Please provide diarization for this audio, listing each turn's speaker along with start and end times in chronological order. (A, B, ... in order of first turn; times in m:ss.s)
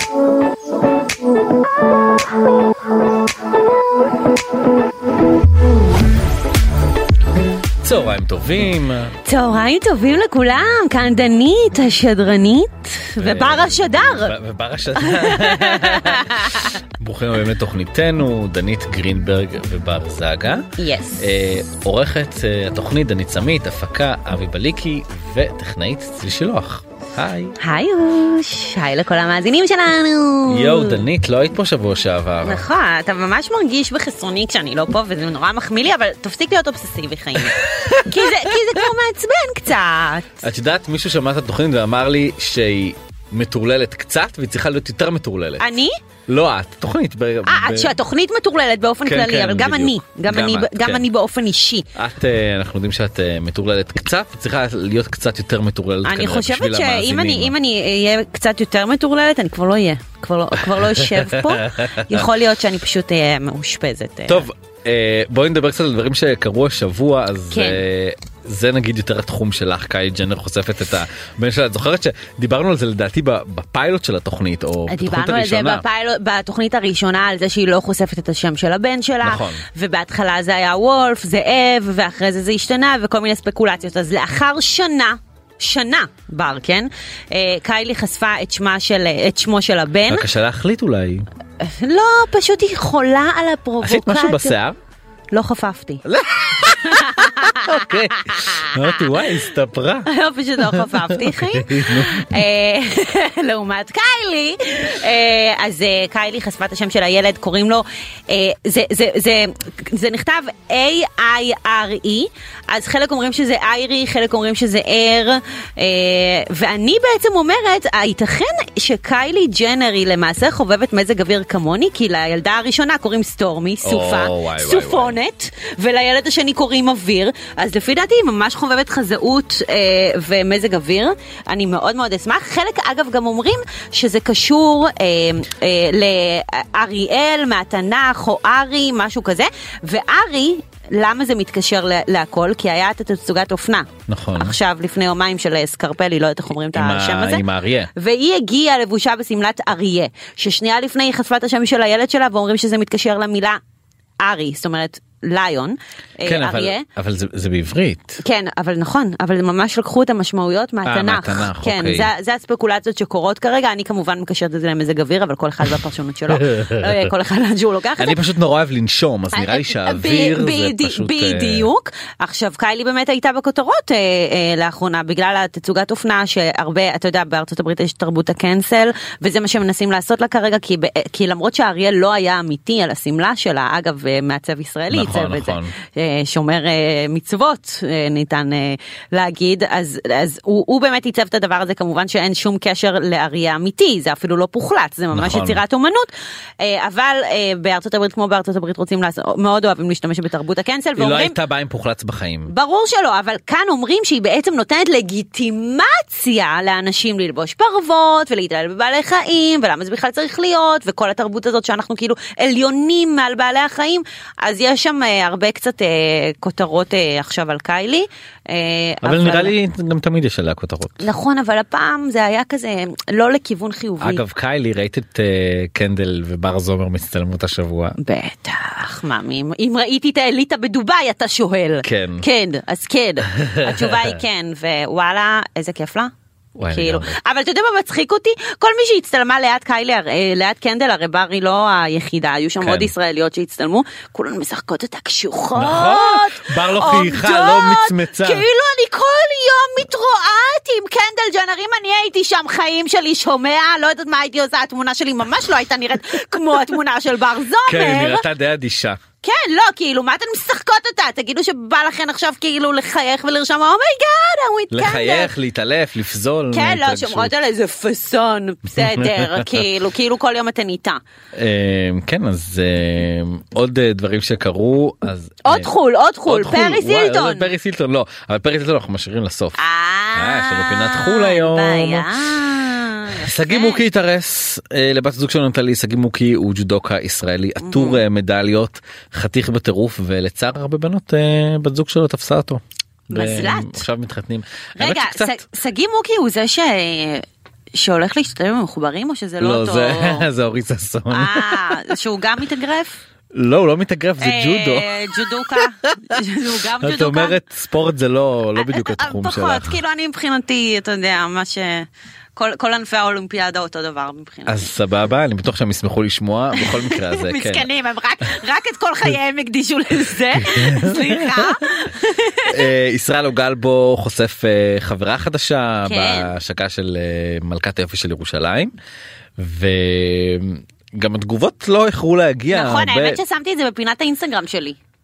0:07.8-0:09.2 A
0:09.2-0:14.4 B
0:13.2-0:27.6 A
0:15.0-0:16.8 B
0:20.8-0:21.3 B
0:27.6-0:31.0 B
0:30.5-0:32.6 A
0:32.4-0:40.4 B
0:37.6-0:38.5 A
0:40.4-0:45.6 A
0:45.6-0:46.0 B
0:46.3-0:48.0 A
0:47.5-0:51.9 B
0:49.0-0:51.0 A
0:52.0-0:57.6 A
0:56.0-1:04.5 B
1:00.6-1:02.3 A
1:04.3-1:15.8 A
1:07.5-1:07.8 B
1:14.9-1:30.3 B
1:19.2-1:19.6 A
1:30.1-1:31.3 A
1:31.6-1:34.6 B
1:33.8-1:34.8 A
1:35.3-1:38.9 B
1:36.0-1:42.4 A
1:40.1-2:27.4 B
2:03.8-2:05.2 A
2:24.1-2:24.6 A
2:26.7-2:27.9 A
2:28.0-2:33.6 B
2:34.2-2:36.9 B
2:36.2-2:38.2 A
2:38.2-2:48.2 B
2:40.8-2:42.1 A
2:46.3-2:47.1 A
2:48.0-2:51.7 A
2:49.3-3:21.4 B
3:04.9-3:05.7 A
3:15.1-3:15.6 A
3:21.0-3:22.5 A
3:22.5-3:39.5 B
3:39.0-3:41.1 A
3:41.0-3:44.2 B
3:44.0-3:48.0 A
3:48.0-3:56.1 B
3:51.8-3:52.2 A
3:53.4-3:54.2 A
3:56.6-3:57.2 A
3:56.7-4:18.3 B
4:02.6-4:02.9 A
4:05.6-4:08.4 A
4:17.7-4:19.0 A
4:19.2-4:25.3 B
4:24.7-4:27.3 A
4:26.5-4:31.0 B
4:28.7-4:29.7 A
4:31.3-4:35.7 A
4:35.4-4:37.5 B
4:36.3-4:39.6 A
4:39.6-4:43.8 B
4:40.2-4:42.1 A
4:43.1-4:55.4 A
4:47.6-4:48.0 B
4:53.1-4:53.8 B
4:54.8-5:00.3 B
4:59.4-5:01.8 A
5:01.1-5:03.0 B
5:03.3-5:06.2 A
5:04.2-5:07.4 B
5:06.8-5:09.8 A
5:08.6-5:14.7 B
5:14.5-5:17.7 A
5:16.6-5:22.6 B
5:20.4-5:21.6 A
5:22.5-5:28.7 A
5:25.8-5:26.3 B
5:29.4-5:33.2 A
5:32.5-5:34.8 B